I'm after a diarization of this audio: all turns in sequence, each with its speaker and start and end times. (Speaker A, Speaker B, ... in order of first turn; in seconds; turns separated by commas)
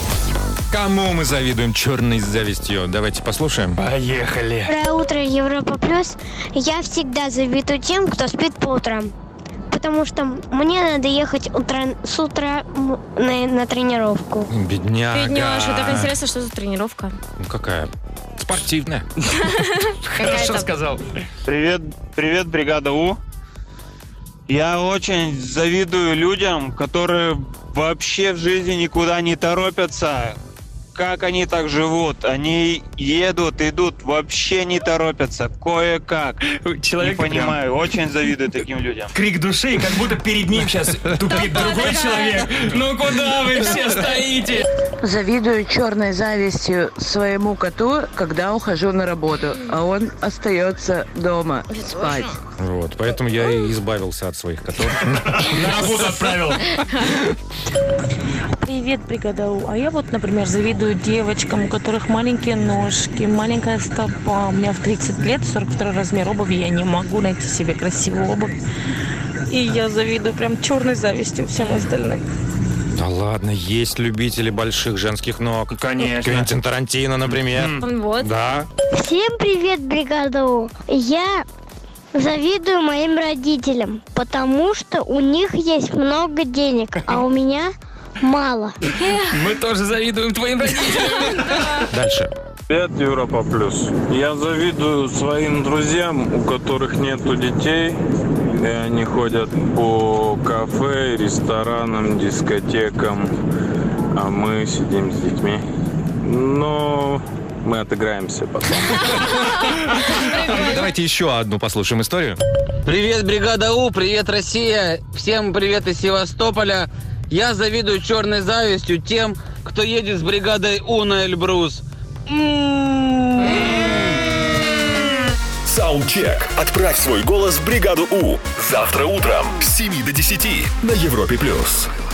Speaker A: 0.7-3.9, Speaker B: 3.8-4.7, Speaker C: 4.6-9.1, Speaker C: 9.7-14.5, Speaker A: 14.5-16.1, Speaker D: 15.1-17.2, Speaker A: 17.4-19.1, Speaker D: 20.1-20.7, Speaker B: 20.2-21.0, Speaker E: 21.5-23.2, Speaker E: 24.5-30.4, Speaker E: 30.9-36.5, Speaker B: 36.6-37.6, Speaker E: 37.0-39.2, Speaker B: 39.1-44.6, Speaker F: 45.0-52.3, Speaker A: 52.6-56.0, Speaker B: 55.3-56.7, Speaker G: 58.6-68.6, Speaker G: 69.5-72.2, Speaker A: 72.9-78.7, Speaker B: 75.7-76.5, Speaker B: 77.5-77.8, Speaker D: 77.8-78.3, Speaker C: 79.0-81.5, Speaker C: 82.2-88.8, Speaker B: 89.2-91.8, Speaker A: 91.9-92.3, Speaker H: 92.7-98.0, Speaker H: 98.5-103.3, Speaker H: 104.1-105.6, Speaker H: 106.2-109.0, Speaker A: 109.6-112.4, Speaker I: 112.9-121.8, Speaker J: 125.7-131.9